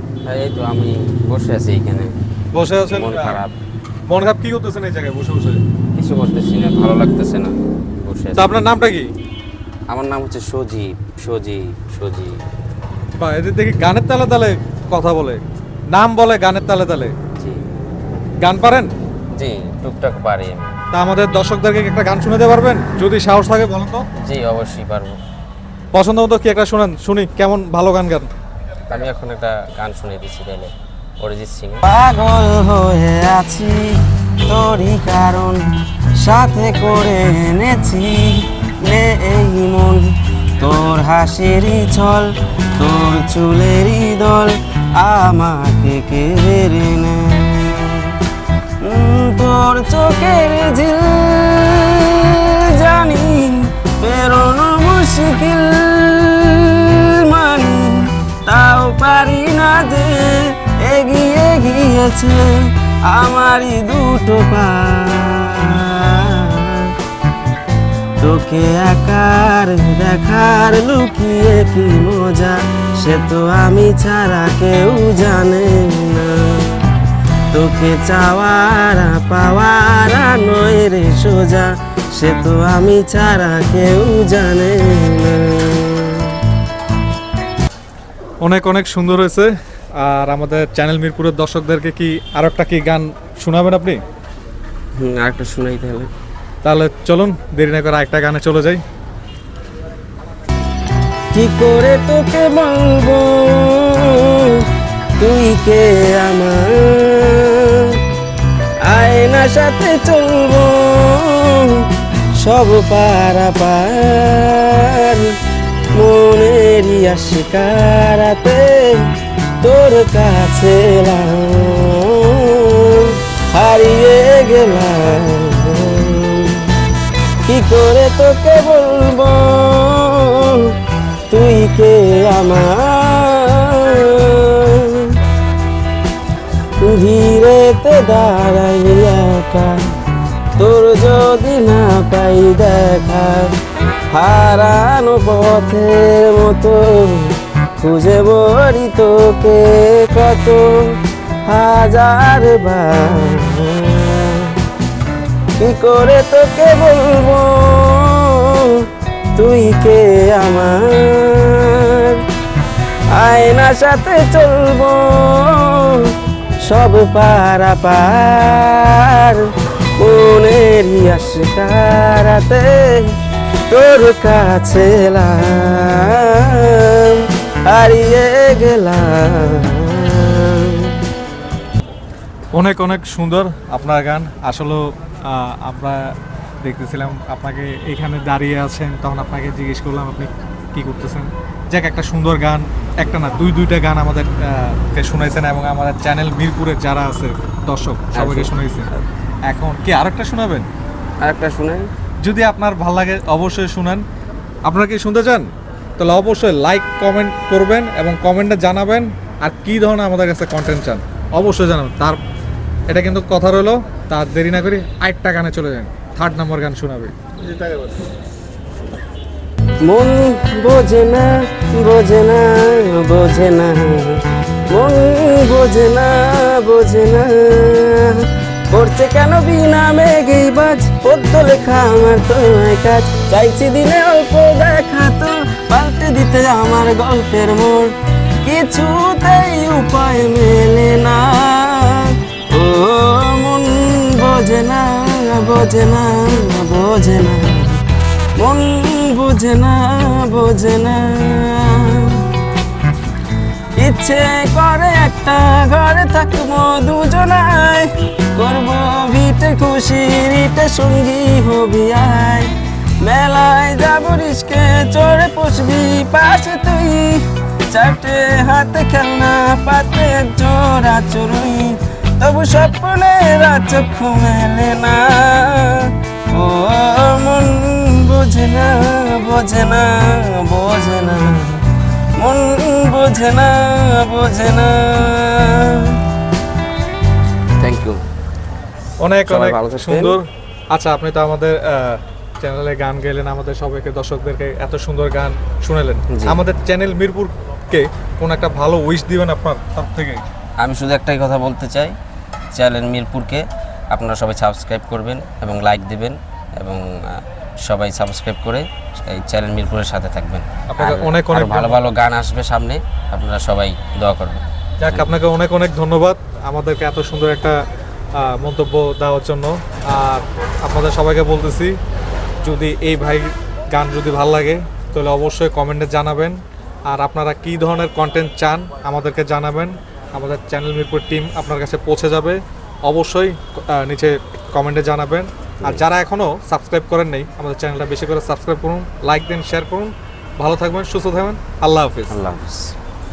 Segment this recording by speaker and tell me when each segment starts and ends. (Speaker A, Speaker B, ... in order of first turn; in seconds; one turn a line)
Speaker A: 0.2-2.1
Speaker B: 2.5-3.4
Speaker A: 2.9-3.5
Speaker B: 4.1-5.6
Speaker A: 5.9-8.6
Speaker B: 8.3-9.1
Speaker A: 9.9-12.4
Speaker B: 13.2-15.4
Speaker B: 15.9-17.1
Speaker B: 18.4-18.9
Speaker A: 19.3-20.8
Speaker B: 20.9-24.0
Speaker A: 24.2-25.1
Speaker B: 25.9-28.3
Speaker A: 28.9-31.8
Speaker C: 31.8-33.9
Speaker C: 34.5-35.6
Speaker C: 36.2-48.1
Speaker C: 48.8-66.9
Speaker C: 68.2-76.7
Speaker C: 77.5-86.3
Speaker B: 88.4-94.0
Speaker A: 95.0-96.1
Speaker B: 96.6-98.8
Speaker C: 101.3-104.7
Speaker C: 105.2-108.0
Speaker C: 108.8-115.3
Speaker C: 115.9-119.1
Speaker C: 119.6-126.7
Speaker C: 127.4-130.7
Speaker C: 131.3-135.2
Speaker C: 136.8-139.8
Speaker C: 140.6-143.5
Speaker C: 144.1-154.5
Speaker C: 155.6-162.2
Speaker C: 163.1-173.1
Speaker C: 173.7-180.9
Speaker B: 182.5-186.1
Speaker B: 186.6-198.9
Speaker A: 198.1-198.5
Speaker B: 199.4-200.7
Speaker A: 201.2-201.9
Speaker B: 202.2-204.0
Speaker B: 204.7-212.2
Speaker B: 212.9-217.9
Speaker C: 219.8-247.8
Speaker C: 248.4-252.2
Speaker C: 253.8-262.5
Speaker C: 263.0-281.6
Speaker C: 282.2-286.0
Speaker A: 287.6-288.0
Speaker B: 289.0-300.2
Speaker A: 289.3-290.2
Speaker A: 300.6-301.9
Speaker A: 302.5-315.1
Speaker B: 310.7-311.8
Speaker B: 314.8-317.6
Speaker B: 318.2-321.7
Speaker B: 322.4-342.2
Speaker A: 342.1-342.8